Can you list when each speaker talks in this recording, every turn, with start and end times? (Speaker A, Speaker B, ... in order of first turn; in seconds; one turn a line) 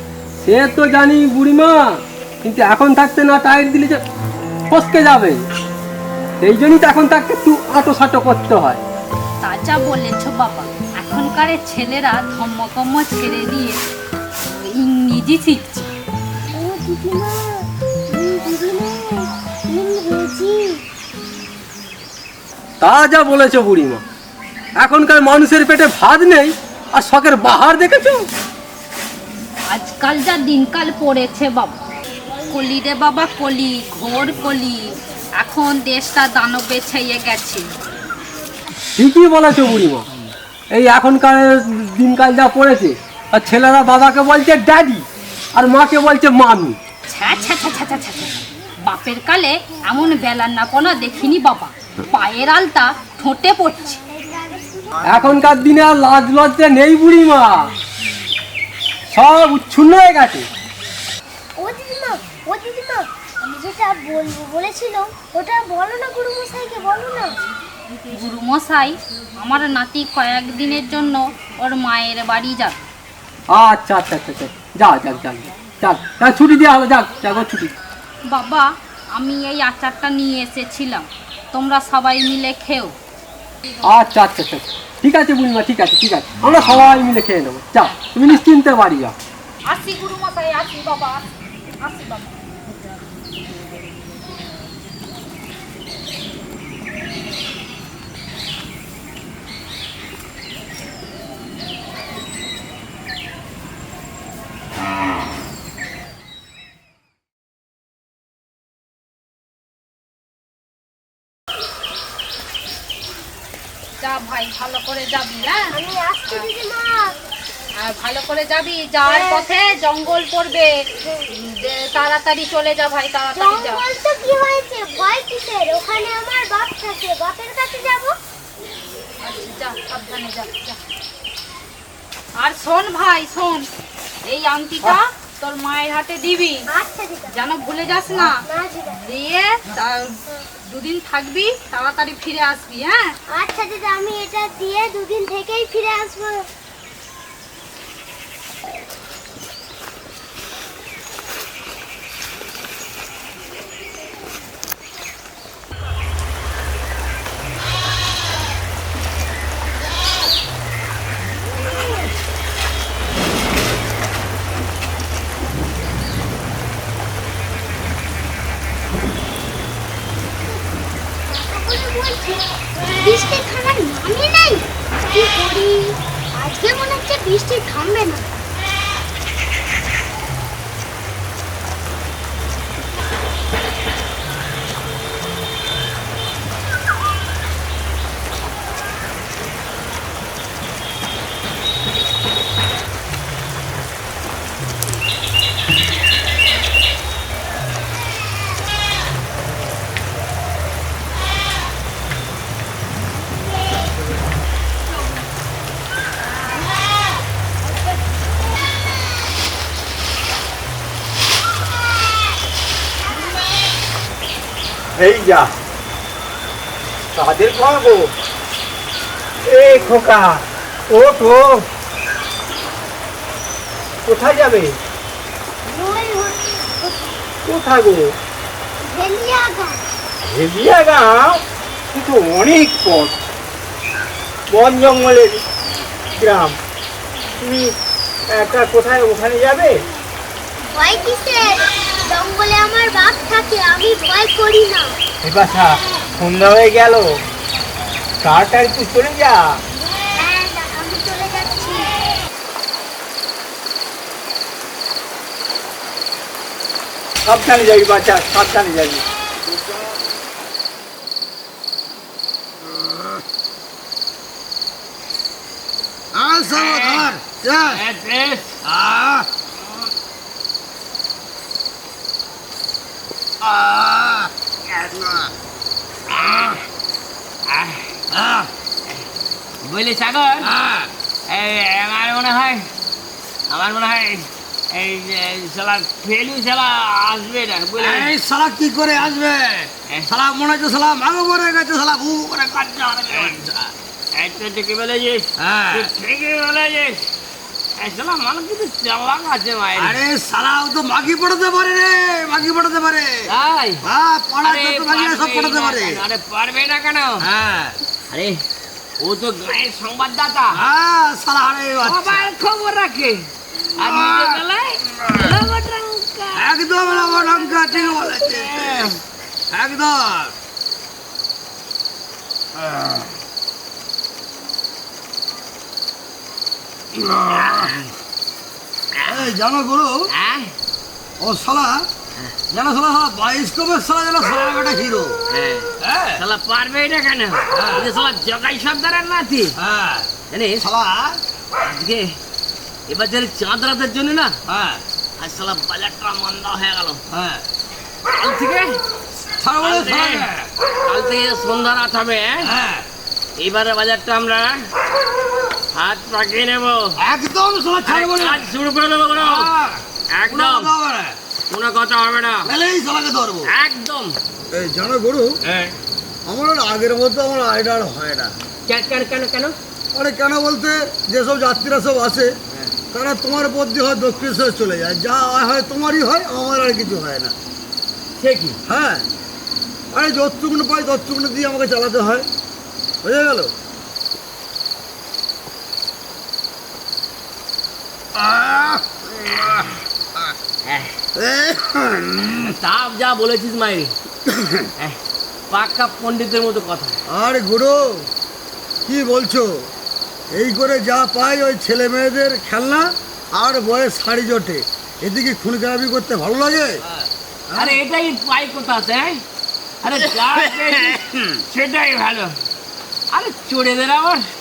Speaker A: 0.4-4.0
Speaker A: 4.7-5.4
Speaker A: 6.4-8.8
Speaker B: 9.4-13.8
Speaker B: 14.5-15.9
Speaker C: 16.5-20.8
Speaker A: 22.8-24.0
Speaker A: 24.8-28.2
Speaker B: 29.7-31.8
Speaker B: 32.5-37.7
Speaker A: 39.0-40.0
Speaker A: 40.7-46.8
Speaker B: 47.1-48.3
Speaker B: 48.8-54.0
Speaker C: 53.9-55.0
Speaker A: 55.0-57.7
Speaker A: 59.1-60.5
Speaker C: 61.6-67.3
Speaker B: 68.1-72.8
Speaker A: 73.5-77.7
Speaker B: 78.3-82.9
Speaker A: 83.8-89.1
Speaker B: 89.7-91.2
Speaker B: 91.8-92.4
Speaker B: 114.0-115.7
Speaker C: 115.7-117.1
Speaker B: 117.8-120.7
Speaker C: 119.0-119.5
Speaker B: 121.3-123.8
Speaker C: 123.3-128.2
Speaker B: 129.2-130.8
Speaker B: 132.4-133.7
Speaker B: 134.2-136.7
Speaker C: 136.7-137.3
Speaker B: 137.3-138.4
Speaker C: 138.4-139.0
Speaker B: 139.0-143.1
Speaker C: 143.3-146.5
Speaker C: 171.3-172.4
Speaker C: 173.0-178.3
Speaker D: 214.9-215.5
Speaker D: 217.1-218.1
Speaker D: 219.4-221.6
Speaker D: 224.1-224.8
Speaker C: 225.7-227.2
Speaker D: 227.4-228.1
Speaker C: 228.8-229.8
Speaker D: 230.3-231.4
Speaker D: 231.9-233.1
Speaker D: 234.5-235.4
Speaker D: 236.2-236.6
Speaker D: 237.4-237.7
Speaker D: 238.3-239.8
Speaker C: 240.7-244.9
Speaker D: 245.2-247.2
Speaker D: 248.2-249.5
Speaker C: 250.1-252.0
Speaker D: 257.2-259.0
Speaker E: 266.1-267.8
Speaker F: 266.5-267.1
Speaker F: 267.7-268.5
Speaker E: 268.6-269.3
Speaker E: 273.4-274.3
Speaker E: 274.8-275.3
Speaker F: 276.1-276.6
Speaker F: 277.5-277.9
Speaker E: 278.1-278.5
Speaker F: 279.6-280.5
Speaker E: 280.4-280.9
Speaker F: 281.3-282.6
Speaker F: 283.5-288.1
Speaker E: 287.7-293.6
Speaker F: 293.1-293.5
Speaker F: 294.1-297.1
Speaker E: 295.4-295.9
Speaker F: 297.8-300.0
Speaker E: 299.8-303.2
Speaker F: 303.3-303.8
Speaker E: 303.8-306.0
Speaker F: 304.4-307.3
Speaker E: 307.2-307.7
Speaker F: 308.1-308.4
Speaker F: 309.0-310.6
Speaker E: 310.5-312.3
Speaker F: 311.8-313.2
Speaker F: 313.8-316.4
Speaker E: 313.8-314.4
Speaker E: 315.0-315.3
Speaker E: 316.3-319.0
Speaker F: 317.9-318.9
Speaker E: 319.5-320.3
Speaker E: 322.6-323.1
Speaker E: 327.0-327.7
Speaker F: 327.3-327.9
Speaker F: 329.0-329.3
Speaker E: 329.1-330.1
Speaker F: 330.1-330.5
Speaker E: 331.2-331.8
Speaker E: 332.5-335.1
Speaker F: 335.3-339.5
Speaker E: 335.8-336.2
Speaker E: 337.5-337.9
Speaker E: 339.6-340.1
Speaker F: 340.3-340.7
Speaker E: 340.6-341.2
Speaker F: 341.6-342.1
Speaker F: 342.9-344.4
Speaker E: 344.5-344.8
Speaker F: 345.2-347.0
Speaker E: 347.1-347.4
Speaker F: 348.1-348.8
Speaker E: 349.4-350.4
Speaker F: 349.6-350.3
Speaker F: 350.9-352.5
Speaker E: 352.4-352.8
Speaker F: 353.4-354.6
Speaker F: 355.7-356.9
Speaker E: 357.0-358.4
Speaker F: 357.9-359.5
Speaker E: 359.2-361.1
Speaker F: 360.1-360.7
Speaker F: 361.5-362.5
Speaker E: 362.4-363.5
Speaker F: 363.5-364.2
Speaker E: 364.5-365.3
Speaker F: 365.4-365.7
Speaker E: 366.3-368.3
Speaker F: 368.7-369.6
Speaker E: 369.9-372.3
Speaker E: 372.9-377.3
Speaker F: 378.2-378.6
Speaker E: 378.7-379.0
Speaker E: 379.9-382.2
Speaker E: 383.0-383.5
Speaker E: 388.2-389.7
Speaker F: 390.6-390.9
Speaker E: 391.2-392.5
Speaker F: 392.4-393.9
Speaker F: 395.5-397.0
Speaker E: 397.1-398.0
Speaker E: 398.9-399.7
Speaker E: 400.3-406.8
Speaker E: 407.5-407.8
Speaker F: 407.6-409.2
Speaker F: 409.8-412.3
Speaker E: 409.9-411.2
Speaker F: 413.1-414.3